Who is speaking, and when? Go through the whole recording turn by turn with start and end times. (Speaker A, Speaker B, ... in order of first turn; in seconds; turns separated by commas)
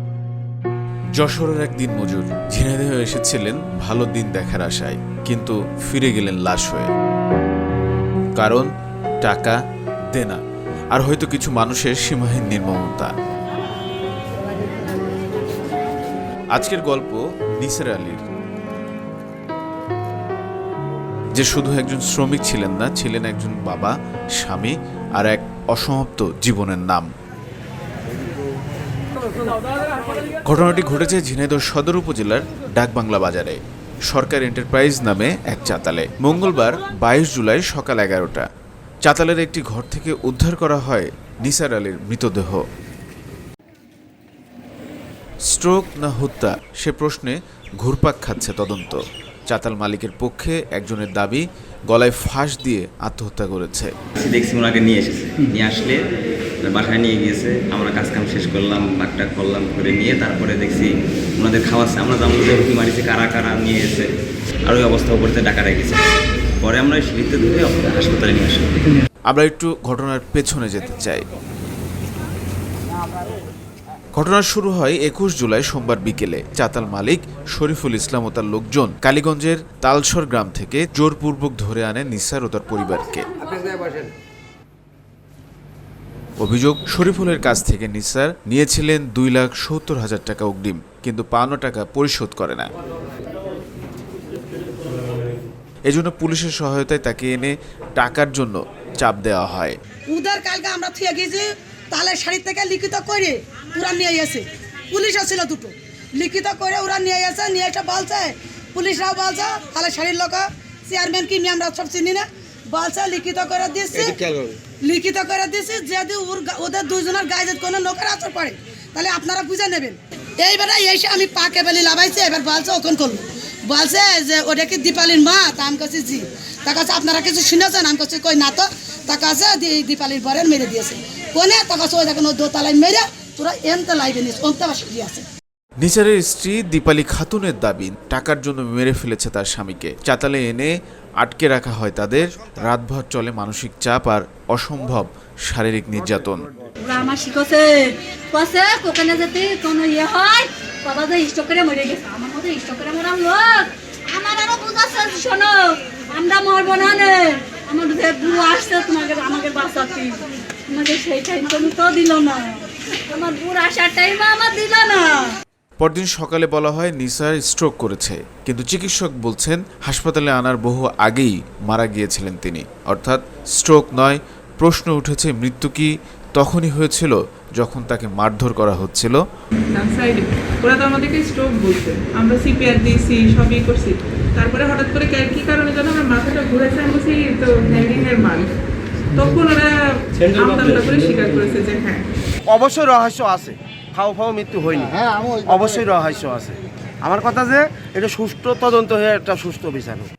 Speaker A: 1.1-6.9, Speaker A: 8.4-8.7, Speaker A: 9.2-9.6, Speaker A: 10.1-10.4, Speaker A: 10.9-13.1, Speaker A: 16.5-18.2, Speaker A: 21.4-27.1, Speaker A: 30.4-38.5, Speaker A: 39.0-42.6, Speaker A: 45.5-54.0, Speaker B: 54.2-56.0, Speaker B: 56.6-64.1, Speaker B: 64.7-66.1, Speaker B: 66.6-68.8, Speaker A: 69.3-71.2, Speaker A: 74.2-83.3, Speaker A: 86.4-92.7, Speaker A: 95.9-99.8, Speaker C: 100.1-114.2, Speaker C: 114.8-135.2, Speaker A: 135.8-146.4, Speaker D: 146.8-165.4, Speaker A: 165.8-179.2, Speaker E: 179.7-188.6, Speaker E: 189.1-192.1, Speaker F: 192.5-200.1